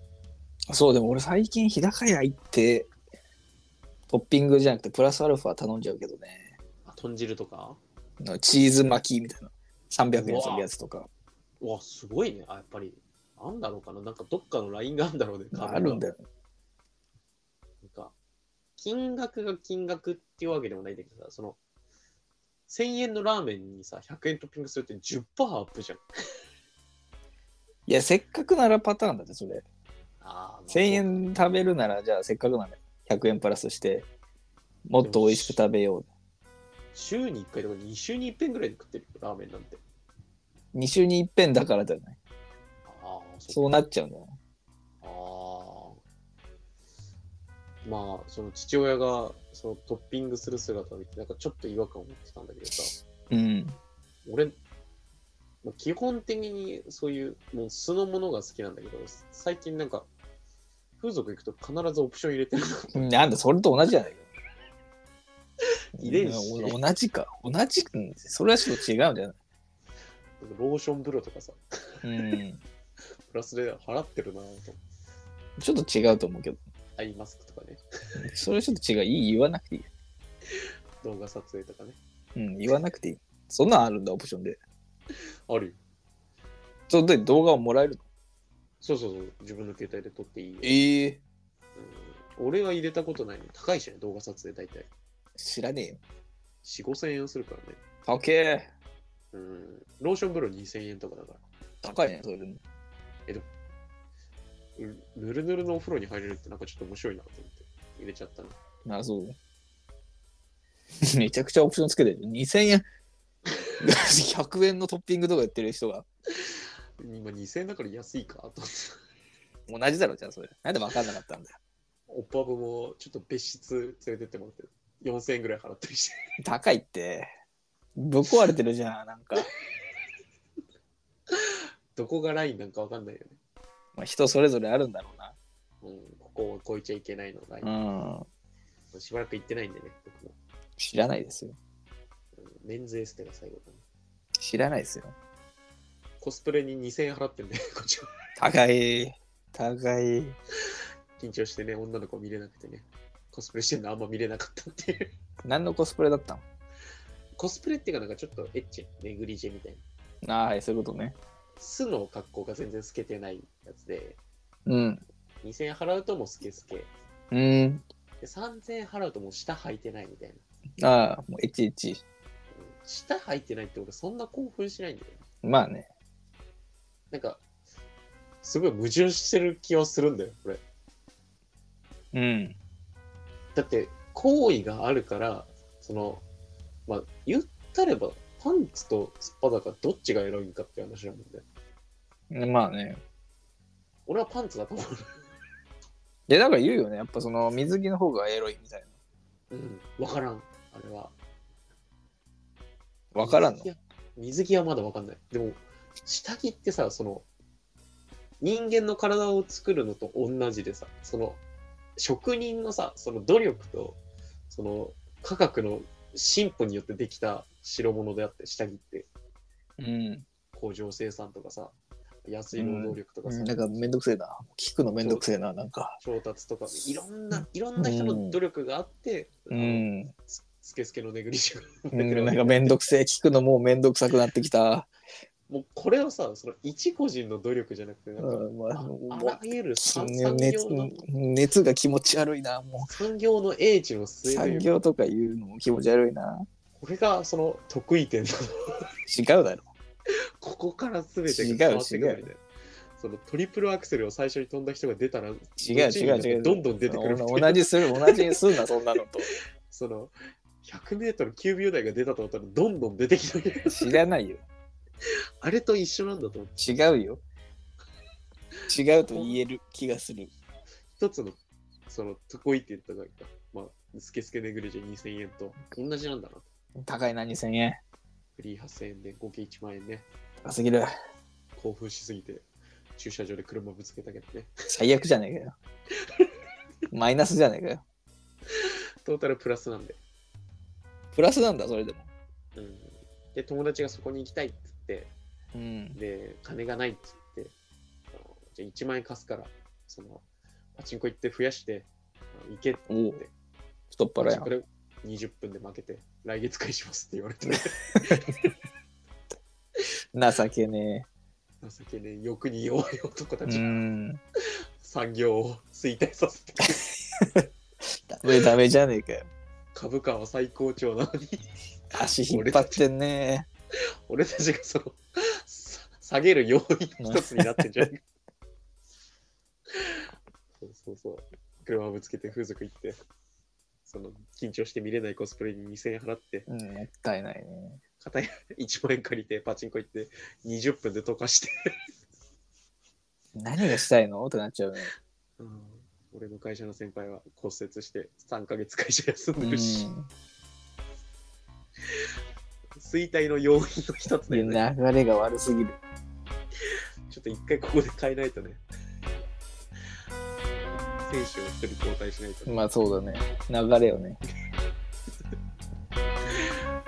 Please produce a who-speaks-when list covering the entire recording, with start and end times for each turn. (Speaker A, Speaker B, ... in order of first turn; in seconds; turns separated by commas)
Speaker A: 0.7-2.9, Speaker A: 4.1-6.5, Speaker B: 6.8-7.8, Speaker A: 8.2-11.1, Speaker B: 10.2-10.7, Speaker B: 11.6-16.1, Speaker A: 15.5-16.2, Speaker B: 17.8-18.1, Speaker B: 18.8-21.6, Speaker B: 22.7-26.0, Speaker A: 27.9-29.6, Speaker B: 30.2-31.4, Speaker A: 30.7-34.1, Speaker A: 34.9-36.1, Speaker B: 35.0-35.6, Speaker B: 36.9-39.8, Speaker A: 40.7-42.2, Speaker B: 42.9-43.7, Speaker A: 43.5-44.4, Speaker B: 45.0-46.0, Speaker B: 47.9-52.9, Speaker A: 53.3-53.8, Speaker B: 54.2-54.6, Speaker B: 55.6-60.1, Speaker B: 61.0-63.2, Speaker A: 63.0-64.3, Speaker B: 66.0-66.8, Speaker A: 66.0-69.3, Speaker B: 70.4-72.0, Speaker A: 72.0-72.6, Speaker B: 73.3-74.8, Speaker A: 75.6-76.6, Speaker B: 77.0-77.8, Speaker A: 78.2-79.9, Speaker B: 81.0-82.0, Speaker A: 82.4-84.6, Speaker B: 85.5-85.8, Speaker A: 86.9-88.0, Speaker B: 88.8-90.8, Speaker A: 90.6-91.2, Speaker B: 91.8-94.9, Speaker A: 95.4-96.0, Speaker B: 96.6-97.8, Speaker A: 98.1-98.7, Speaker B: 99.3-101.4, Speaker A: 101.8-102.6, Speaker B: 104.8-108.6, Speaker A: 108.8-109.4, Speaker A: 111.0-112.8, Speaker A: 113.8-116.0, Speaker B: 116.4-119.0, Speaker A: 119.7-121.6, Speaker B: 122.1-126.2, Speaker A: 126.4-127.3, Speaker A: 128.0-129.5, Speaker B: 131.3-133.4, Speaker A: 134.0-135.4, Speaker B: 135.8-137.7, Speaker A: 137.6-138.3, Speaker B: 138.9-140.4, Speaker A: 140.8-141.6, Speaker B: 142.3-143.8, Speaker A: 144.4-145.1, Speaker B: 146.2-148.1, Speaker A: 148.4-150.4, Speaker B: 151.2-155.1, Speaker A: 155.4-156.4, Speaker B: 157.4-159.8, Speaker A: 160.2-161.2, Speaker B: 161.6-164.2, Speaker A: 164.7-165.1, Speaker B: 165.4-166.9, Speaker A: 167.3-167.8, Speaker B: 168.2-170.4, Speaker A: 170.8-172.0, Speaker B: 172.5-175.2, Speaker A: 175.4-175.9, Speaker B: 177.1-177.4, Speaker B: 178.4-180.6, Speaker A: 182.1-182.6, Speaker B: 183.6-186.2, Speaker B: 186.9-191.4, Speaker A: 192.3-193.0, Speaker B: 194.1-195.1, Speaker A: 196.3-198.9, Speaker B: 199.5-201.1, Speaker A: 203.1-203.7, Speaker B: 203.2-207.3, Speaker B: 208.4-211.4, Speaker B: 212.0-214.0, Speaker B: 214.5-219.1, Speaker A: 219.8-220.2, Speaker B: 220.5-221.8, Speaker B: 222.3-223.9, Speaker A: 222.6-226.0, Speaker B: 226.0-232.8, Speaker A: 227.3-228.4, Speaker A: 229.5-230.1, Speaker A: 231.9-234.9, Speaker B: 235.5-241.0, Speaker A: 238.2-242.9, Speaker B: 242.8-244.7, Speaker A: 244.3-246.5, Speaker B: 246.8-248.5, Speaker A: 249.1-249.7, Speaker B: 250.4-252.4, Speaker A: 251.3-252.3, Speaker B: 253.0-258.3, Speaker A: 255.6-259.3, Speaker B: 259.7-264.0, Speaker A: 263.7-264.4, Speaker B: 265.4-266.6, Speaker A: 266.6-267.2, Speaker B: 268.7-269.4, Speaker A: 268.7-270.3, Speaker B: 271.0-276.5, Speaker A: 276.8-277.8, Speaker B: 278.4-280.1, Speaker A: 280.4-280.9, Speaker B: 281.6-282.4, Speaker B: 283.0-284.5, Speaker A: 284.7-285.6, Speaker A: 286.9-287.8, Speaker B: 288.5-290.0, Speaker A: 291.1-292.1, Speaker B: 292.6-295.1, Speaker A: 295.5-296.0, Speaker B: 295.9-297.5, Speaker B: 298.1-300.2, Speaker B: 300.8-303.3, Speaker A: 302.9-303.2, Speaker A: 303.9-304.5, Speaker B: 304.2-308.6, Speaker A: 307.5-308.3, Speaker A: 310.1-311.1, Speaker B: 311.6-313.7, Speaker A: 313.5-314.2, Speaker B: 314.8-316.8, Speaker A: 317.1-319.3, Speaker B: 319.7-321.5, Speaker A: 321.9-323.5, Speaker B: 322.3-322.8, Speaker B: 324.1-328.0, Speaker A: 327.0-327.7, Speaker B: 329.7-330.0, Speaker B: 330.6-333.0, Speaker B: 333.9-336.5, Speaker A: 336.5-337.8, Speaker B: 338.0-341.6, Speaker A: 343.4-344.9, Speaker B: 345.4-349.9, Speaker A: 349.4-350.1, Speaker B: 352.8-354.6, Speaker A: 354.3-355.8, Speaker B: 357.1-358.6, Speaker B: 361.1-362.7, Speaker A: 362.5-364.2